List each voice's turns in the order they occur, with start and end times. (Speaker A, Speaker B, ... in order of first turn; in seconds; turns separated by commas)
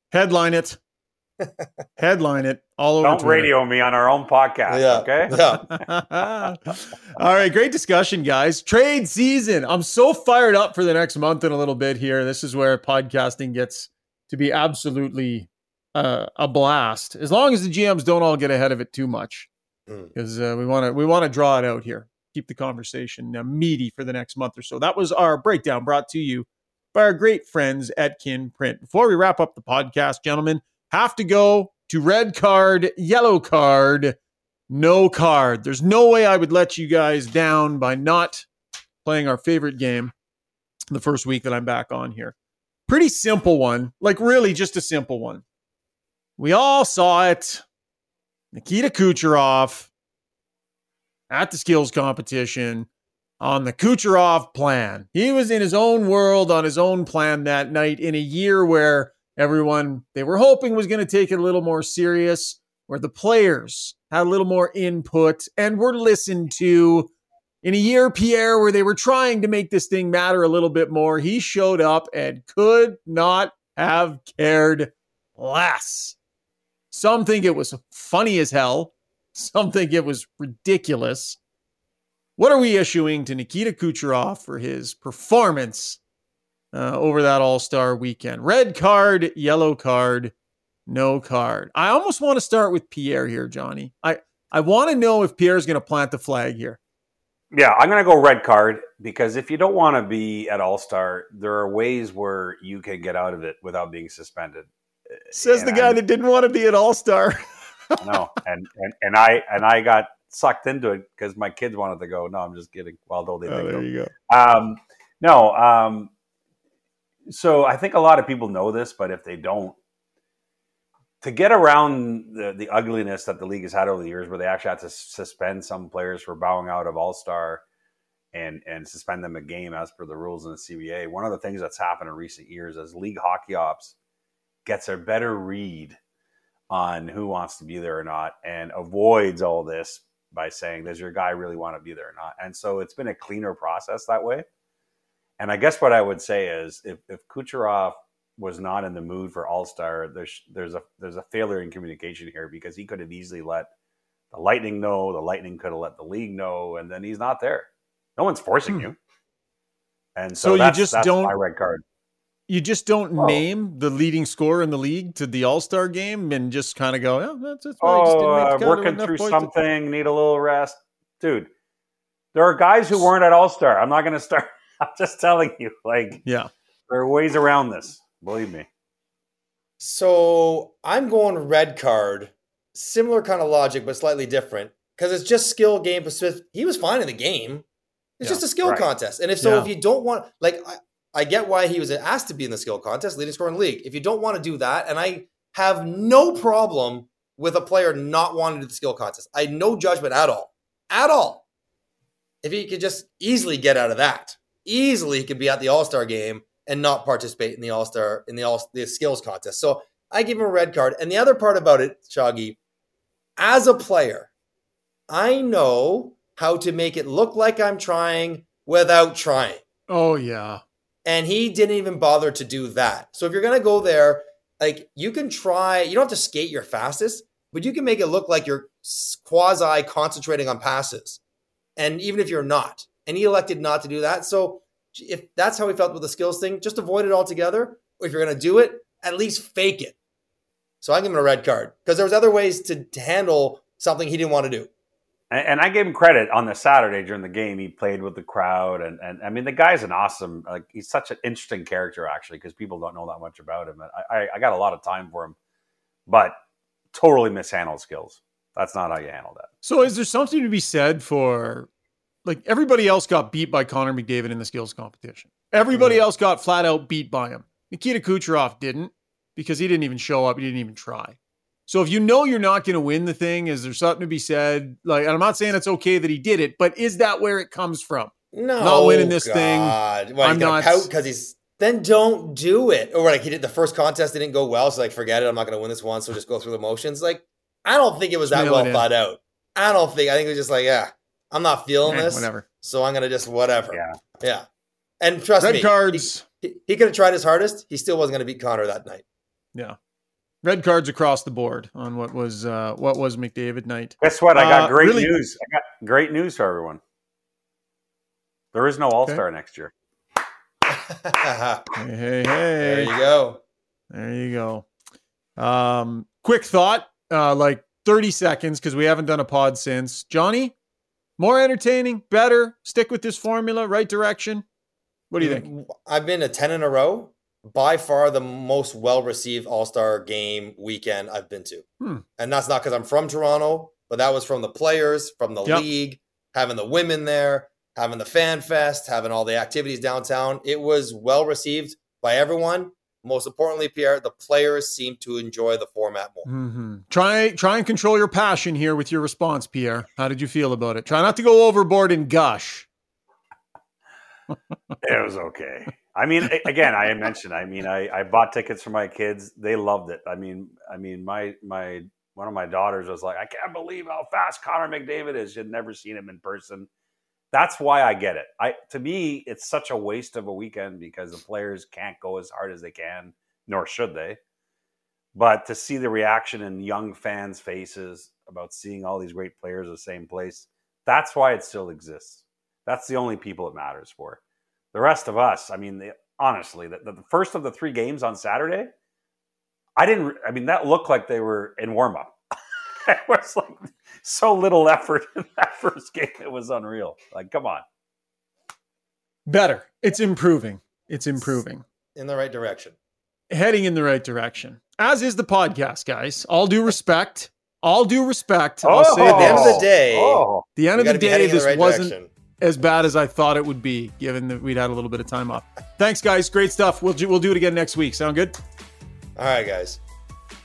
Speaker A: 0.1-0.8, Speaker B: 1.4-1.7, Speaker A: 2.0-3.5, Speaker C: 3.0-5.6, Speaker B: 4.7-5.7, Speaker A: 5.7-19.5, Speaker A: 20.1-34.2, Speaker A: 34.7-38.5, Speaker A: 39.0-40.1, Speaker A: 40.9-42.3, Speaker A: 42.9-45.4, Speaker A: 46.4-47.6, Speaker A: 48.5-49.9, Speaker A: 51.3-52.9, Speaker A: 53.4-67.1, Speaker A: 67.6-76.2, Speaker A: 76.9-81.4, Speaker A: 82.4-86.0, Speaker A: 86.7-90.3, Speaker A: 90.9-96.8, Speaker C: 97.5-106.0, Speaker A: 105.3-108.2, Speaker C: 108.0-116.1, Speaker A: 113.5-114.1, Speaker C: 117.3-119.8, Speaker C: 121.2-127.6, Speaker C: 128.3-133.9, Speaker C: 134.6-136.0, Speaker C: 136.7-144.4, Speaker C: 145.4-153.7, Speaker C: 154.3-159.0, Speaker C: 160.2-161.8, Speaker A: 160.4-161.3, Speaker A: 162.5-169.5, Speaker C: 163.2-163.4, Speaker C: 167.8-171.5, Speaker C: 172.3-176.2, Speaker A: 176.2-176.5, Speaker C: 176.9-178.7, Speaker B: 179.8-187.6, Speaker B: 188.2-201.4, Speaker C: 188.2-188.8, Speaker A: 189.4-189.7, Speaker B: 202.4-212.6, Speaker B: 213.4-214.3, Speaker B: 215.1-219.6, Speaker A: 219.9-220.6, Speaker B: 221.0-231.2, Speaker B: 231.8-239.9, Speaker B: 240.8-244.7, Speaker C: 245.3-255.3, Speaker C: 256.1-256.3, Speaker C: 256.9-259.5, Speaker A: 259.6-261.7, Speaker A: 262.2-280.9, Speaker B: 278.3-294.4, Speaker A: 288.3-288.9, Speaker A: 291.8-292.4, Speaker C: 293.7-294.0, Speaker B: 295.0-299.0, Speaker A: 295.4-296.2, Speaker A: 300.4-305.1, Speaker C: 304.0-306.8, Speaker C: 308.5-309.7, Speaker B: 310.7-311.7, Speaker A: 311.8-312.9, Speaker B: 312.6-313.4, Speaker A: 313.9-314.6, Speaker A: 315.4-320.5, Speaker A: 321.2-324.4, Speaker A: 325.1-325.4, Speaker B: 325.2-331.6, Speaker B: 332.2-346.3, Speaker A: 346.2-352.7, Speaker C: 354.8-366.7, Speaker C: 367.3-374.2, Speaker C: 375.1-384.2, Speaker C: 384.7-388.7, Speaker C: 389.8-392.1, Speaker C: 392.8-397.6, Speaker A: 399.3-401.6, Speaker B: 401.9-402.7, Speaker A: 403.3-409.6, Speaker C: 408.6-410.4, Speaker B: 409.0-412.1, Speaker A: 410.6-418.4, Speaker B: 419.2-419.8